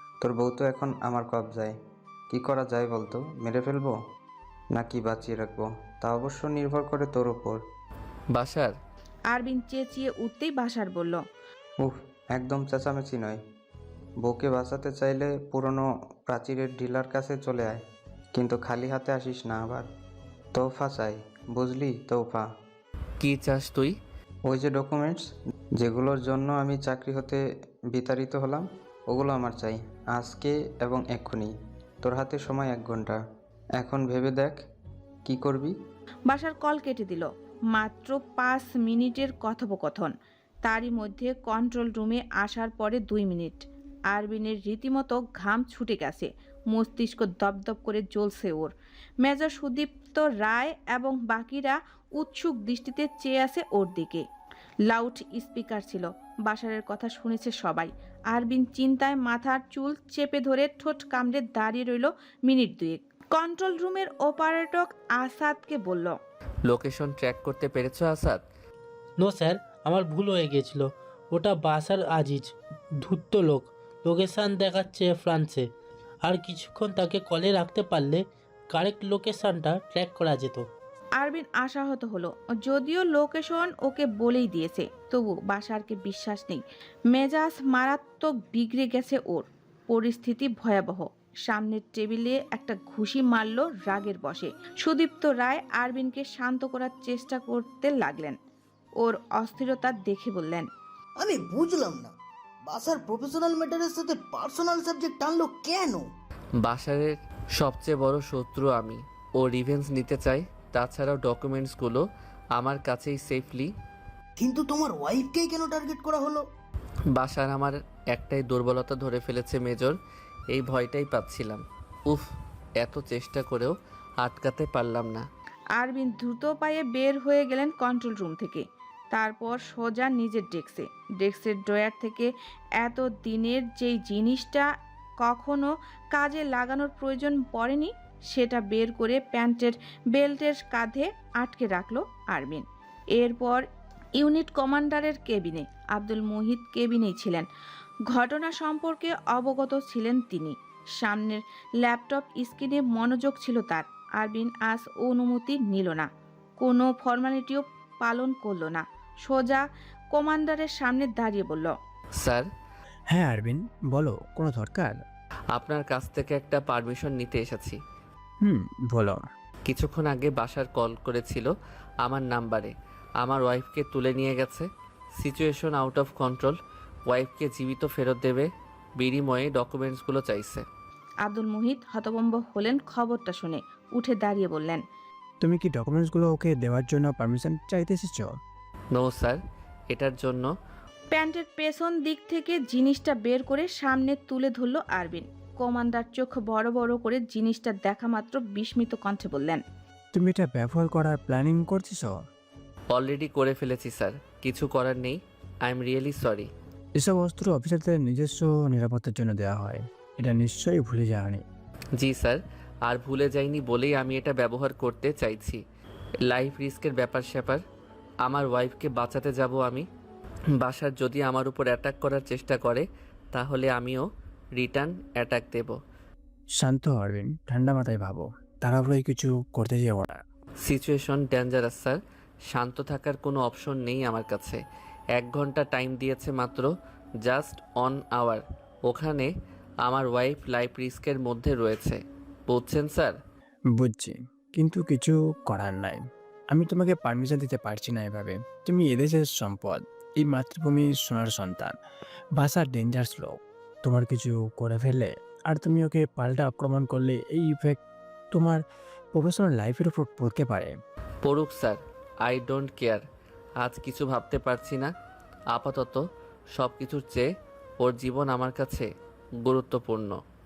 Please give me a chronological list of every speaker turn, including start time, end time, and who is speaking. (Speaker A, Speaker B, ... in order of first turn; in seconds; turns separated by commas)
Speaker A: 0.2-1.7, Speaker A: 2.3-4.0, Speaker A: 4.7-7.6, Speaker B: 8.3-8.7, Speaker C: 9.3-11.2, Speaker A: 11.8-13.4, Speaker A: 14.2-17.8, Speaker A: 18.3-19.9, Speaker A: 20.5-22.5, Speaker B: 23.2-23.9, Speaker A: 24.5-25.2, Speaker A: 25.8-27.4, Speaker A: 27.9-31.5, Speaker A: 32.0-33.2, Speaker A: 33.8-34.6, Speaker A: 35.2-35.7, Speaker C: 36.3-40.1, Speaker C: 40.6-48.7, Speaker C: 49.2-54.2, Speaker C: 54.9-66.2, Speaker B: 66.7-68.4, Speaker D: 69.2-75.7, Speaker D: 76.2-80.7, Speaker C: 81.2-98.3, Speaker C: 99.0-100.7, Speaker E: 101.2-102.1, Speaker E: 102.6-106.1, Speaker B: 106.6-112.0, Speaker B: 112.5-113.7, Speaker E: 114.4-116.4, Speaker B: 117.1-119.9, Speaker B: 120.5-122.2, Speaker B: 122.8-125.2, Speaker C: 125.8-134.7, Speaker C: 135.2-142.6, Speaker C: 143.2-143.6, Speaker C: 144.2-147.5, Speaker C: 148.1-156.1, Speaker C: 156.6-161.7, Speaker B: 162.2-162.4, Speaker F: 163.1-165.0, Speaker B: 165.5-167.8, Speaker F: 168.4-169.2, Speaker B: 169.7-171.5, Speaker B: 172.0-174.7, Speaker B: 175.2-176.6, Speaker B: 177.1-180.6, Speaker C: 181.2-184.8, Speaker F: 185.4-188.3, Speaker B: 188.9-189.4, Speaker B: 189.9-190.5, Speaker C: 191.1-199.6, Speaker F: 200.1-202.1, Speaker B: 202.9-206.5, Speaker F: 207.0-211.4, Speaker B: 212.0-215.6, Speaker B: 216.3-217.6, Speaker B: 218.2-219.8, Speaker B: 220.6-224.0, Speaker B: 224.6-225.7, Speaker F: 226.6-230.2, Speaker B: 230.6-232.0, Speaker B: 232.5-234.6, Speaker B: 235.2-236.7, Speaker B: 237.2-239.3, Speaker B: 239.8-243.2, Speaker F: 243.7-251.7, Speaker F: 252.3-257.8, Speaker F: 258.3-258.6, Speaker F: 259.1-260.7, Speaker B: 261.2-263.0, Speaker B: 263.6-264.9, Speaker B: 265.5-266.0, Speaker B: 266.6-267.2, Speaker B: 267.8-268.9, Speaker B: 269.4-270.2